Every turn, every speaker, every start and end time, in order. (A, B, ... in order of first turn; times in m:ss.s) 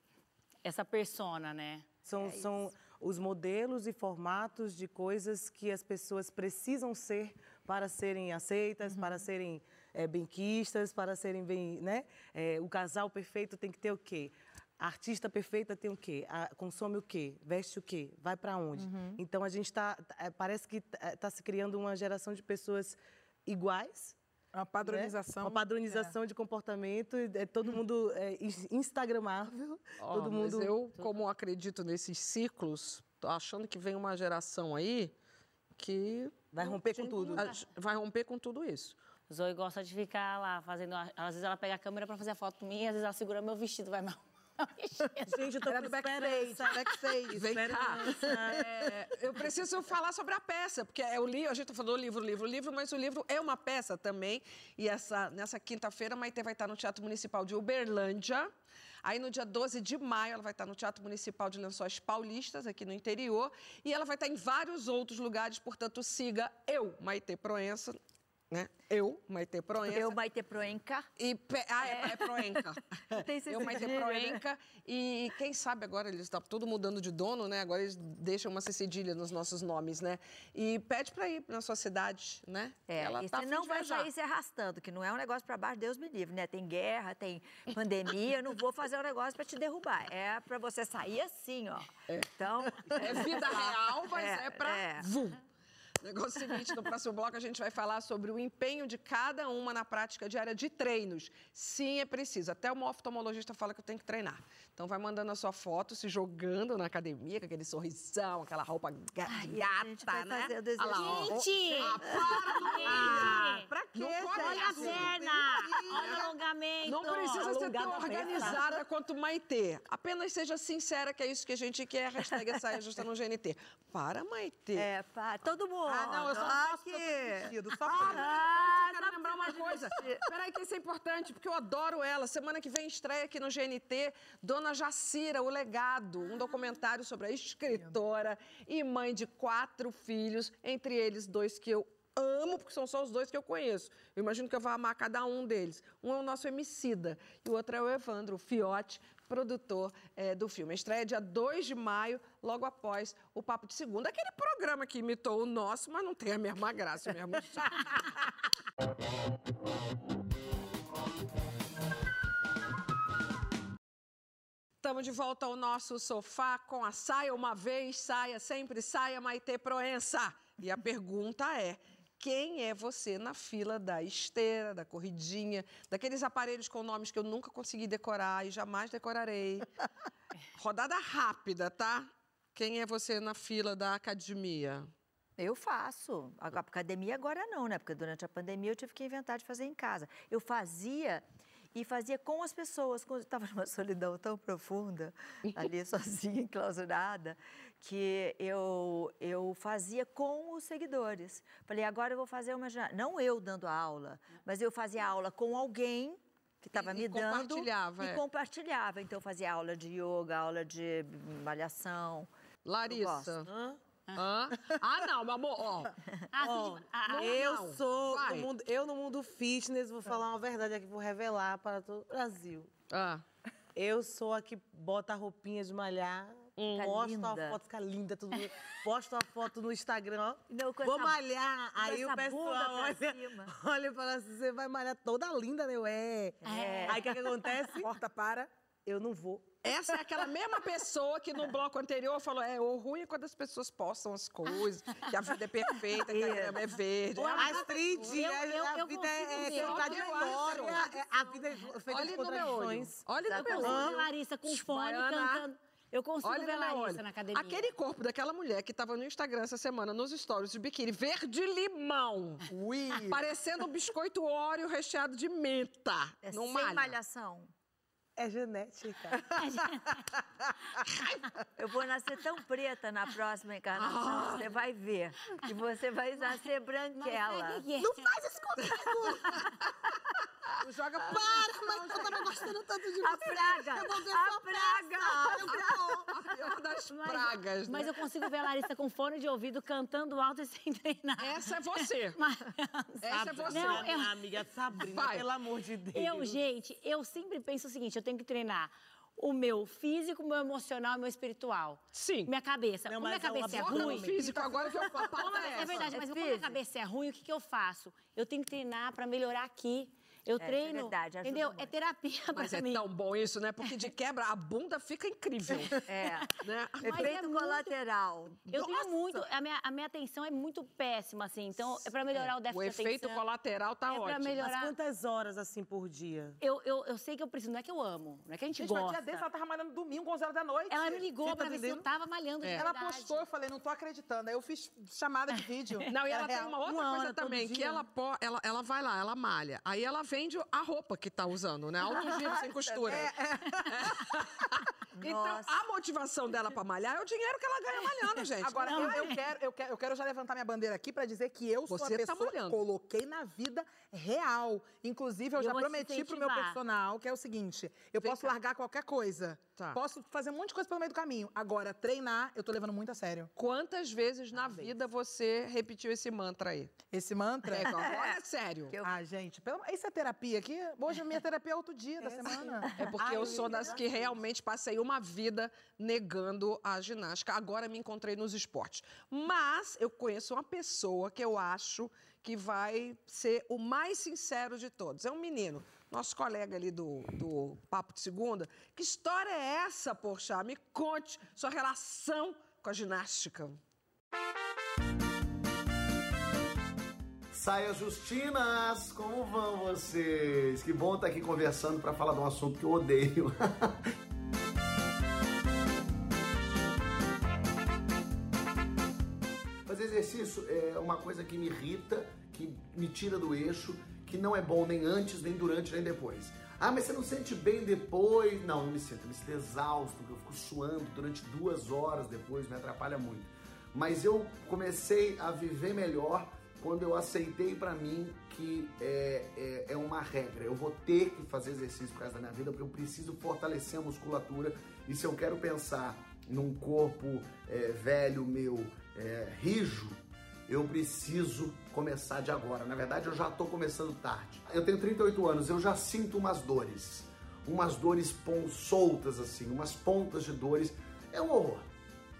0:00.6-0:01.8 A
0:02.0-0:24.2 B
0:08.9-0:09.2 C
0:18.8-0:19.2 C
0:24.5-0:26.1 C
0:24.8-0:30.8 B
0:30.0-0:35.1 D
0:35.8-0:36.5 D
0:36.5-0:37.5 B
0:37.0-0:37.6 A
0:37.1-0:39.0 D
0:39.3-0:45.5 A
0:45.3-0:48.8 B
0:45.6-0:48.5 C
0:47.3-0:58.5 D
0:59.0-1:08.0 D
1:08.5-1:10.2 D
1:09.8-1:11.1 E
1:11.2-1:24.1 D
1:11.8-1:14.4 E
1:22.9-1:35.1 E
1:32.9-1:35.4 D
1:36.0-1:55.1 D
1:49.3-1:53.3 E
1:50.9-1:52.0 A
1:52.6-1:53.7 A
1:53.9-1:56.3 C
1:54.4-1:58.6 A
1:55.9-1:56.2 D
1:56.8-2:04.9 D
2:04.7-2:10.2 E
2:05.9-2:08.4 C
2:07.9-2:38.1 D
2:44.8-2:59.7 D
3:00.6-3:04.9 D
3:05.4-3:32.3 E
3:26.7-3:28.2 D
3:32.6-3:33.5 D
3:32.9-3:33.5 E
3:33.5-3:33.8 B
3:34.1-3:35.9 D
3:36.3-3:37.4 A
3:36.4-3:42.7 B
3:37.0-3:38.5 D
3:42.9-3:43.2 D
3:43.7-3:57.9 B
3:46.6-3:46.9 D
3:46.7-3:47.6 E
3:50.5-3:51.2 E
3:51.8-3:53.5 E
3:56.4-3:57.1 E
3:56.4-3:57.2 A
3:57.8-3:58.5 C
3:58.8-3:59.5 B
3:59.6-4:07.7 D
4:06.0-4:06.6 E
4:07.2-4:11.5 A
4:07.4-4:13.0 B
4:09.3-4:10.9 D
4:11.9-4:15.4 D
4:13.2-4:13.9 E
4:13.5-4:17.7 A
4:13.6-4:14.0 B
4:16.2-4:22.5 D
4:23.0-4:27.0 D
4:26.2-4:27.5 E
4:28.2-4:29.3 B
4:29.3-4:30.0 A
4:31.6-4:37.6 E
4:33.7-4:34.6 D
4:37.0-4:38.1 A
4:37.8-4:39.3 B
4:38.5-4:39.6 D
4:40.6-4:42.3 C
4:41.0-4:46.1 B
4:43.0-4:45.7 E
4:45.4-4:48.0 D
4:46.9-4:54.1 A
4:51.2-4:52.2 D
4:53.0-4:54.0 D
4:53.1-4:56.4 B
4:54.8-4:55.3 D
4:55.9-5:04.1 A
5:01.9-5:02.3 D
5:02.9-5:05.8 B
5:03.4-5:05.9 D
5:05.2-5:12.8 A
5:05.6-5:06.6 E
5:10.4-5:11.7 E
5:12.3-5:15.8 D
5:15.8-5:18.9 E
5:16.4-5:17.2 D
5:16.8-5:17.7 A
5:18.5-5:23.2 A
5:22.1-5:24.4 D
5:23.9-5:24.7 A
5:24.4-5:26.4 B
5:26.4-5:29.2 A
5:28.6-5:31.8 C
5:30.7-5:33.2 A
5:32.5-5:37.8 C
5:35.9-5:43.1 D
5:41.8-5:43.1 E
5:42.9-5:44.1 C
5:43.6-5:49.1 D
5:45.0-5:45.5 E
5:48.4-6:03.3 C
5:48.6-5:49.2 A
5:51.7-5:52.6 D
5:55.4-5:56.6 A
5:58.0-5:58.3 D
6:03.4-6:06.7 D
6:06.9-6:07.8 C
6:07.5-6:08.8 D
6:07.6-6:08.2 E
6:08.7-6:09.0 E
6:08.8-6:12.7 C
6:12.0-6:14.2 B
6:12.8-6:33.6 D
6:37.3-6:43.8 F
6:49.6-7:31.7 F